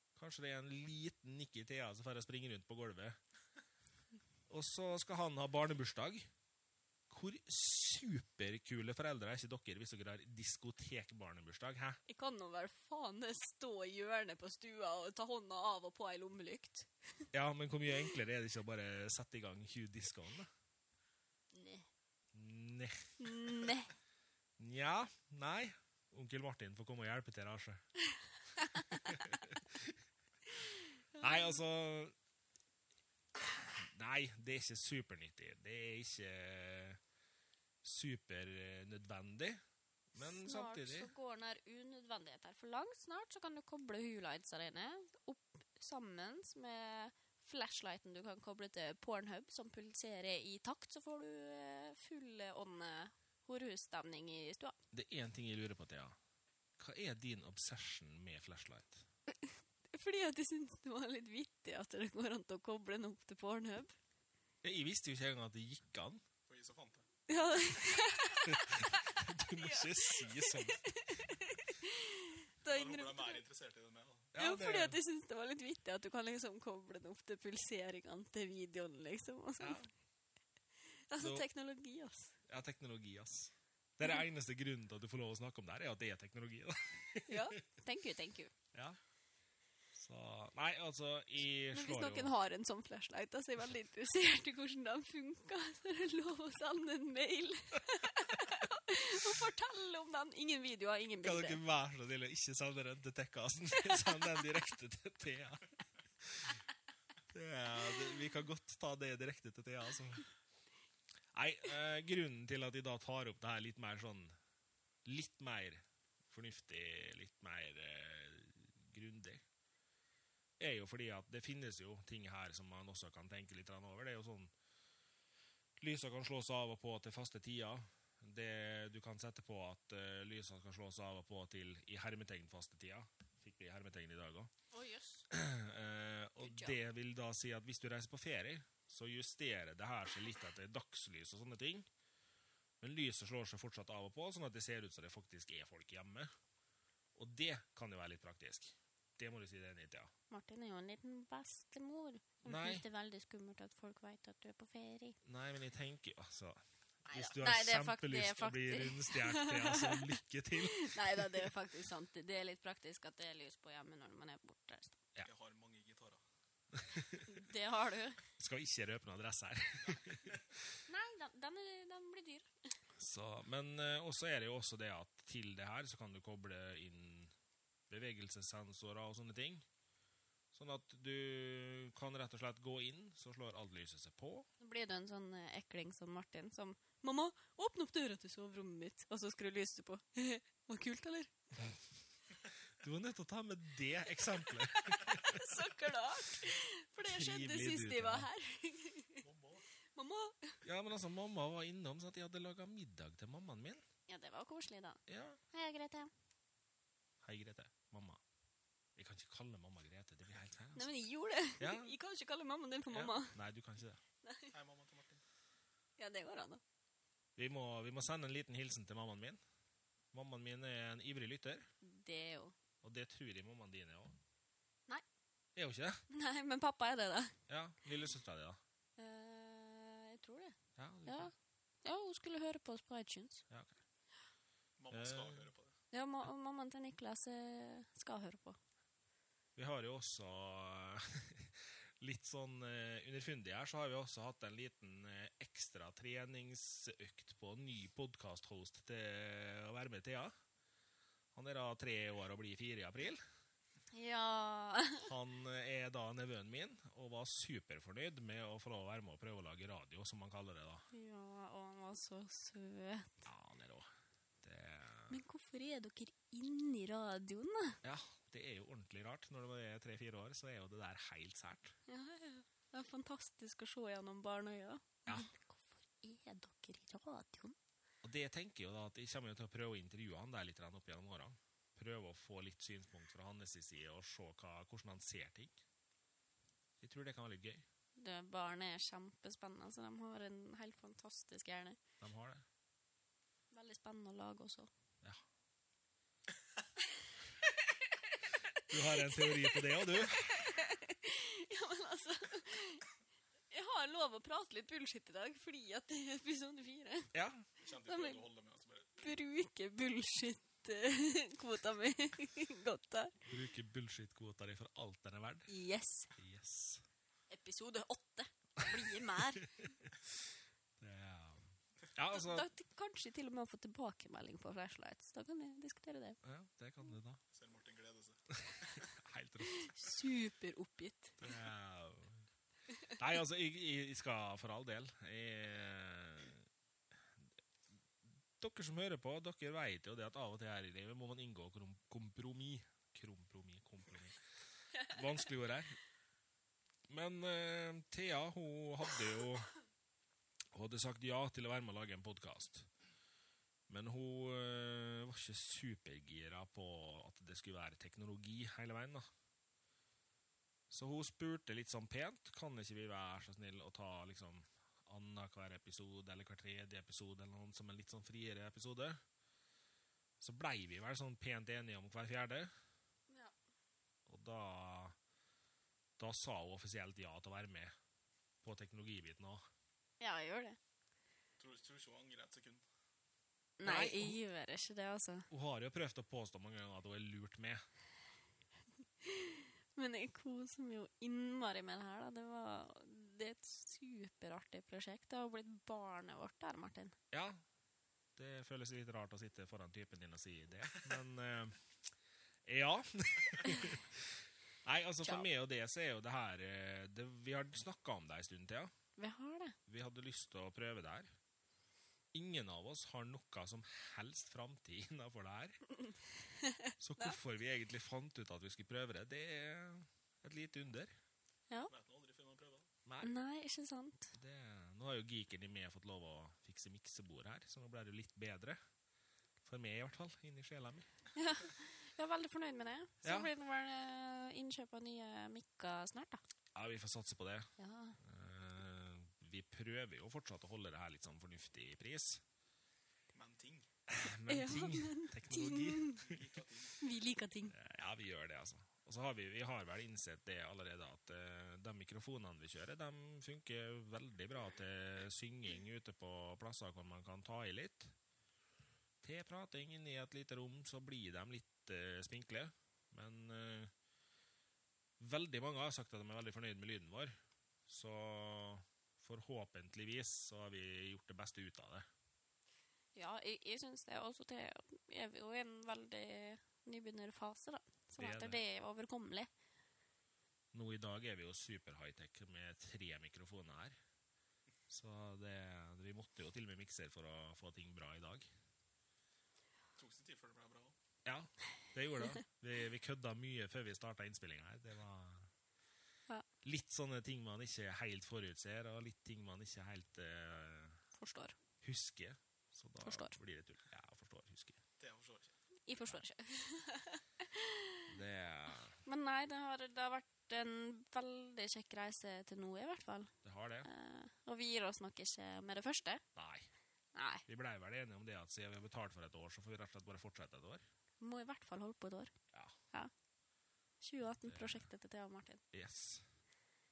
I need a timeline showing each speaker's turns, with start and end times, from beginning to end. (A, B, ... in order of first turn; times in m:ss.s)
0:00.2-0:03.2 A
0:04.5-0:06.3 A
0:07.1-0:12.0 A
0:12.1-0:17.3 B
0:17.3-0:20.5 A
0:21.5-0:21.9 B
0:22.3-0:23.1 A
0:23.2-0:23.9 B
0:24.6-0:27.8 A
0:28.6-0:29.2 B
0:28.9-0:30.0 A
0:31.1-0:31.5 B
0:31.2-0:32.1 A
0:33.4-0:37.0 A
0:37.8-0:39.6 A
0:40.1-0:41.1 A
0:40.2-0:54.8 B
0:54.9-0:56.2 A
0:56.8-0:59.0 A
0:59.9-1:04.0 B
1:04.6-1:06.2 A
1:06.5-1:07.0 C
1:07.3-1:13.4 B
1:08.4-1:11.2 A
1:12.7-1:14.3 C
1:14.3-1:15.0 A
1:14.4-1:19.9 B
1:19.6-1:19.9 A
1:21.1-1:22.3 B
1:21.2-1:21.4 A
1:22.5-1:27.6 A
1:27.3-1:28.5 B
1:28.7-1:29.0 A
1:29.9-1:32.3 A
1:31.7-1:41.6 B
1:41.2-1:46.6 A
1:47.3-1:50.3 A
1:51.3-1:54.3 A
1:55.0-1:59.4 A
2:00.6-2:04.5 A
2:05.8-2:14.5 A
2:14.7-2:15.2 B
2:15.3-2:21.9 A
2:16.4-2:16.8 B
2:22.8-2:26.3 A
2:27.1-2:30.1 A
2:30.3-2:35.2 B
2:32.4-2:32.8 A
2:35.2-2:41.5 A
2:37.0-2:45.0 B
2:45.2-2:46.2 C
2:46.7-2:47.2 A
2:47.2-2:48.2 B
2:48.4-2:50.4 A
2:50.9-2:52.5 B
2:53.0-2:57.3 A
2:57.9-2:59.6 A
3:00.5-3:04.5 A
3:04.6-3:11.3 B
3:11.5-3:11.8 A
3:12.8-3:15.4 A
3:14.8-3:19.2 B
3:17.0-3:18.3 A
3:19.2-3:19.6 C
3:19.9-3:20.6 B
3:20.6-3:23.8 A
3:24.1-3:25.0 B
3:25.1-3:25.4 A
3:25.5-3:26.1 B
3:27.2-3:28.2 A
3:29.0-3:30.9 A
3:30.7-3:33.4 B
3:31.6-3:31.9 A
3:32.9-3:34.0 A
3:34.2-3:34.5 B
3:34.5-3:35.2 C
3:36.0-3:36.6 B
3:37.4-3:39.4 A
3:40.1-3:41.7 A
3:41.8-3:42.5 B
3:42.8-3:44.2 A
3:45.5-3:46.0 A
3:46.1-3:47.4 B
3:47.5-3:48.6 A
3:49.0-3:51.3 B
3:50.8-3:51.3 A
3:51.8-3:53.4 B
3:53.5-3:53.8 A
3:54.8-3:55.7 C
3:54.9-3:55.5 A
3:55.9-3:58.6 B
3:59.6-4:10.3 A
4:11.3-4:13.2 A
4:13.9-4:15.1 B
4:15.0-4:20.8 A
4:20.9-4:23.3 B
4:23.2-4:23.9 A
4:24.4-4:25.2 A
4:25.1-4:27.8 B
4:27.8-4:31.7 A
4:31.9-4:37.6 B
4:38.0-4:45.6 A
4:46.8-4:47.6 A
4:48.0-4:51.8 B
4:52.0-4:52.4 A
4:53.5-4:54.7 B
4:58.5-5:02.8 B
4:58.6-5:00.5 A
5:03.5-5:07.1 B
5:07.1-5:07.4 A
5:07.6-5:09.0 C
5:07.8-5:08.2 B
5:09.0-5:13.2 B
5:13.2-5:15.5 A
5:15.5-5:16.1 B
5:16.1-5:16.8 A
5:17.3-5:19.5 B
5:19.4-5:20.3 A
5:20.8-5:22.5 A
5:22.1-5:26.2 B
5:26.2-5:27.2 A
5:27.3-5:28.9 C
5:28.4-5:29.7 A
5:29.5-5:31.2 B
5:31.2-5:32.2 A
5:32.9-5:36.5 A
5:38.4-5:44.2 A
5:44.8-5:45.8 A
5:46.9-5:49.5 A
5:50.5-5:52.7 A
5:53.7-5:59.1 A
6:00.7-6:09.0 A
6:10.2-6:12.5 A
6:13.1-6:13.3 B
6:14.1-6:15.0 A
6:16.0-6:17.7 A
6:18.4-6:19.4 A
6:20.0-6:20.6 B
6:21.4-6:22.6 C
6:23.6-6:25.3 B
6:23.6-6:24.2 A
6:25.3-6:27.6 A
6:29.0-6:37.0 B
6:37.1-6:37.4 A
6:38.2-6:41.6 A
6:42.4-6:48.7 A
6:49.0-6:49.6 B
6:49.7-6:51.1 A
6:52.1-6:55.6 A
6:56.3-6:57.2 B
6:56.8-7:00.9 A
7:01.7-7:02.7 C
7:02.8-7:03.1 A
7:03.0-7:04.1 B
7:04.1-7:08.6 A
7:09.4-7:10.9 A
7:11.1-7:16.2 B
7:13.0-7:13.3 A
7:16.5-7:22.2 A
7:17.6-7:18.0 B
7:23.1-7:23.7 C
7:23.9-7:26.2 A
7:24.3-7:26.1 B
7:26.0-7:26.8 C
7:26.8-7:27.5 B
7:27.5-7:37.9 A
7:39.0-7:43.7 A
7:45.0-7:47.1 A
7:47.7-7:51.8 A
7:52.9-7:59.3 B
7:58.0-7:58.4 A
8:00.5-8:03.8 A
8:04.7-8:08.3 A
8:09.8-8:10.8 C
8:11.0-8:15.3 A
8:16.4-8:20.8 A
8:20.9-8:21.4 B
8:21.6-8:24.6 A
8:22.8-8:23.2 B
8:24.8-8:25.3 C
8:25.7-8:27.9 B
8:27.9-8:28.8 A
8:28.8-8:33.1 B
8:33.2-8:33.7 A
8:33.6-8:36.0 B
8:36.1-8:36.5 A
8:36.9-8:37.2 B
8:37.2-8:40.6 A
8:41.0-8:42.1 B
8:43.8-8:45.4 B
8:44.2-8:44.6 A
8:45.5-8:46.0 A